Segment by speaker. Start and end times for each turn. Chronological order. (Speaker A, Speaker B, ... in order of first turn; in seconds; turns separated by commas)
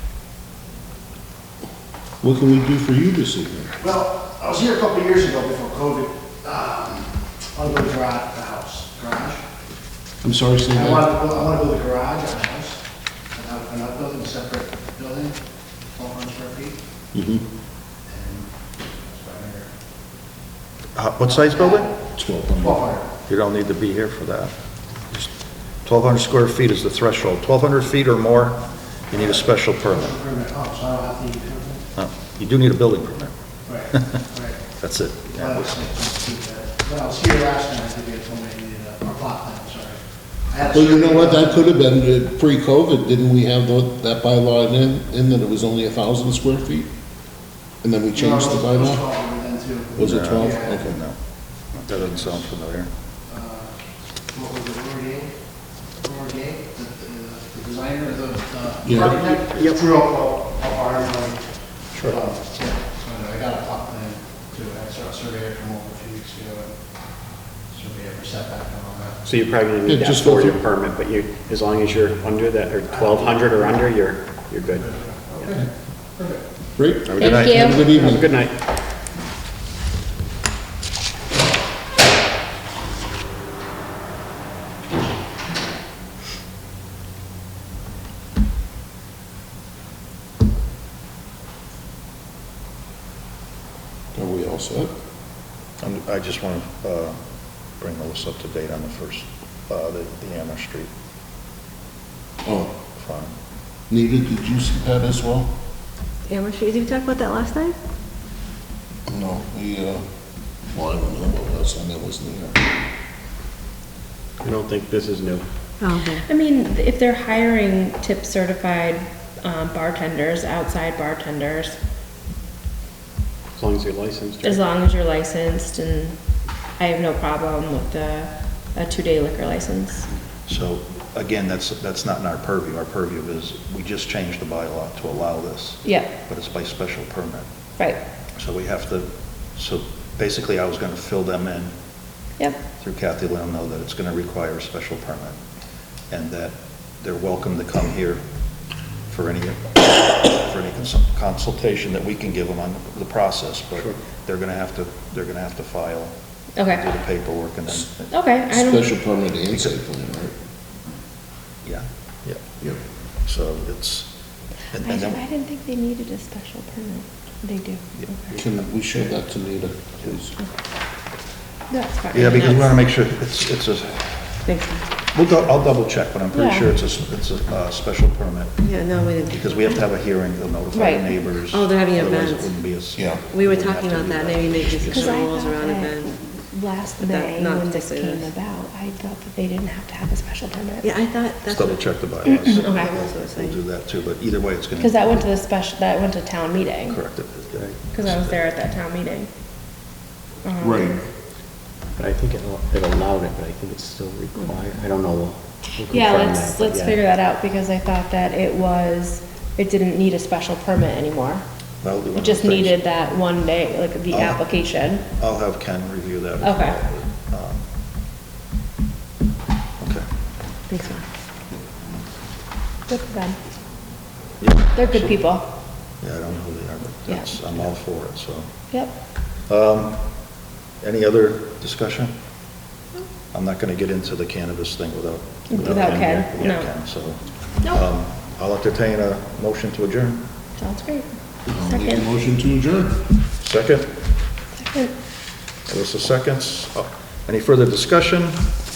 Speaker A: 2.2-3.7, Speaker B: 3.8-9.4, Speaker A: 10.2-11.1, Speaker B: 10.7-12.8, Speaker B: 13.3-15.4, Speaker B: 15.9-16.8, Speaker A: 17.1-17.4, Speaker B: 18.1-19.7, Speaker C: 20.9-21.9, Speaker B: 21.3-21.9, Speaker A: 22.1-22.8, Speaker B: 22.6-23.1, Speaker C: 23.2-24.5, Speaker C: 25.8-30.2, Speaker B: 29.1-31.8, Speaker C: 31.9-33.3, Speaker B: 33.6-34.6, Speaker C: 34.8-35.7, Speaker B: 35.4-40.0, Speaker B: 40.5-41.8, Speaker A: 40.7-46.9, Speaker A: 47.8-49.0, Speaker B: 48.1-50.9, Speaker A: 50.0-51.0, Speaker C: 50.0-51.2, Speaker C: 51.8-52.9, Speaker B: 53.3-53.8, Speaker B: 54.3-55.3, Speaker B: 56.0-61.4, Speaker A: 58.9-59.2, Speaker D: 59.0-59.8, Speaker B: 62.0-66.7, Speaker B: 67.7-69.2, Speaker D: 69.2-75.6, Speaker A: 69.8-70.6, Speaker B: 73.0-73.7, Speaker B: 74.8-75.6, Speaker A: 76.8-78.3, Speaker C: 77.0-77.6, Speaker E: 77.2-77.9, Speaker D: 77.3-78.5, Speaker A: 94.1-94.9, Speaker C: 95.8-97.2, Speaker C: 97.8-100.9, Speaker A: 102.4-102.7, Speaker C: 103.0-103.3, Speaker A: 103.9-105.5, Speaker F: 106.3-107.7, Speaker A: 109.1-110.0, Speaker A: 110.7-112.6, Speaker D: 114.4-115.4, Speaker F: 115.8-116.2, Speaker E: 116.2-121.8, Speaker D: 123.5-124.6, Speaker E: 124.4-126.2, Speaker E: 126.8-130.1, Speaker C: 130.5-137.4, Speaker E: 135.8-136.1, Speaker C: 138.3-141.7, Speaker C: 142.8-145.4, Speaker C: 146.1-148.2, Speaker C: 149.1-158.1, Speaker E: 156.6-156.9, Speaker E: 158.1-158.9, Speaker A: 158.5-160.3, Speaker C: 161.6-162.4, Speaker C: 163.2-164.1, Speaker C: 164.7-165.2, Speaker E: 164.8-168.4, Speaker A: 168.3-170.4, Speaker E: 171.7-172.8, Speaker C: 172.1-174.4, Speaker E: 174.4-174.8, Speaker C: 175.1-178.6, Speaker E: 176.3-176.7, Speaker F: 178.6-179.9, Speaker C: 179.2-185.1, Speaker E: 180.7-181.2, Speaker F: 181.4-182.6, Speaker A: 182.9-183.2, Speaker F: 183.2-186.2, Speaker E: 184.8-190.9, Speaker F: 187.0-188.3, Speaker F: 190.8-193.6, Speaker C: 191.4-195.2, Speaker E: 192.4-192.9, Speaker E: 194.8-197.0, Speaker C: 196.9-198.4, Speaker E: 197.9-199.3, Speaker E: 200.4-201.0, Speaker A: 200.6-201.0, Speaker D: 202.0-207.0, Speaker E: 205.9-211.4, Speaker C: 211.8-212.8, Speaker E: 212.1-215.0, Speaker C: 214.1-214.4, Speaker C: 215.1-217.7, Speaker E: 216.4-216.8, Speaker C: 219.8-220.1, Speaker E: 222.9-223.4, Speaker C: 224.4-225.3, Speaker E: 224.7-225.4, Speaker C: 226.0-228.5, Speaker E: 227.1-227.3, Speaker C: 229.5-232.1, Speaker C: 233.3-240.2, Speaker E: 235.5-236.7, Speaker D: 235.6-236.5, Speaker E: 240.6-242.1, Speaker A: 241.5-243.0, Speaker C: 243.4-243.9, Speaker E: 244.5-244.9, Speaker C: 245.7-248.5